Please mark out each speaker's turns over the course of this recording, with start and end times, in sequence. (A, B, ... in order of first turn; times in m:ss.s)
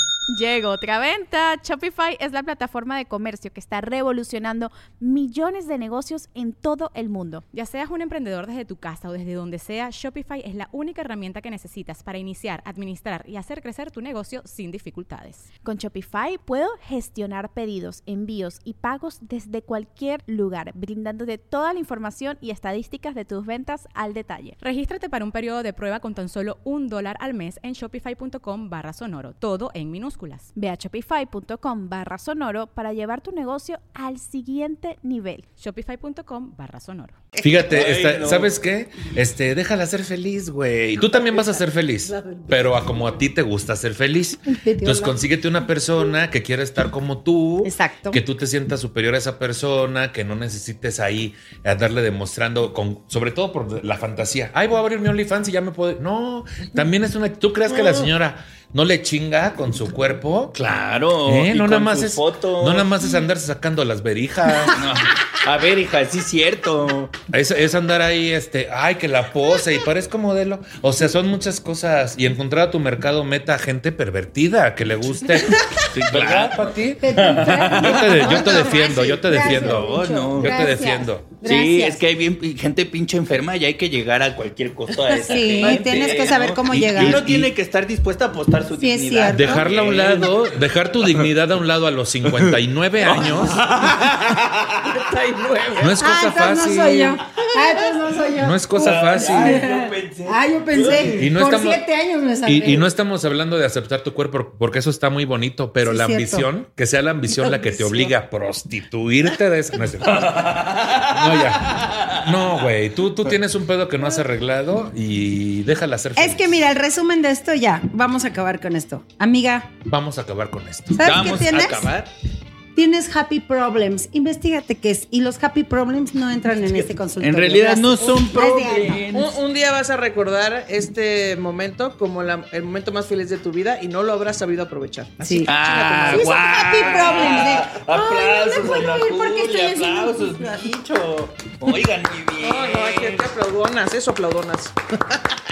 0:00.3-0:07.4 A
0:07.5-0:15.5 B
0:15.6-0:24.6 A
0:24.6-0:30.5 B
0:30.6-0:35.5 A
0:35.6-0:37.2 B
0:37.4-0:38.5 C
0:37.4-1:00.6 D
0:41.1-0:42.8 E
0:44.5-0:45.2 F
0:47.6-0:48.2 F
1:00.5-1:03.0 C
1:01.2-1:04.9 D
1:04.7-1:07.2 C
1:07.3-1:17.1 D
1:15.9-1:20.8 C
1:17.0-1:22.0 F
1:17.7-1:21.4 D
1:21.4-1:30.5 C
1:25.1-1:26.1 E
1:25.2-1:27.5 F
1:27.0-1:27.4 D
1:28.7-1:29.7 F
1:29.3-1:33.7 D
1:32.3-1:35.0 C
1:34.8-1:36.0 E
1:35.8-1:37.2 D
1:36.0-1:42.9 F
1:38.4-1:39.6 D
1:38.8-1:41.4 C
1:41.2-1:41.8 D
1:42.4-1:56.6 D
1:45.8-1:46.5 F
1:50.0-1:52.6 C
1:56.2-1:59.7 F
1:59.9-2:01.1 D
2:00.9-2:01.9 F
2:01.0-2:02.1 C
2:02.8-2:09.1 F
2:07.2-2:09.4 C
2:09.1-2:17.4 E
2:15.2-2:15.5 F
2:15.4-2:23.2 C
2:16.1-2:20.7 F
2:22.4-2:25.2 E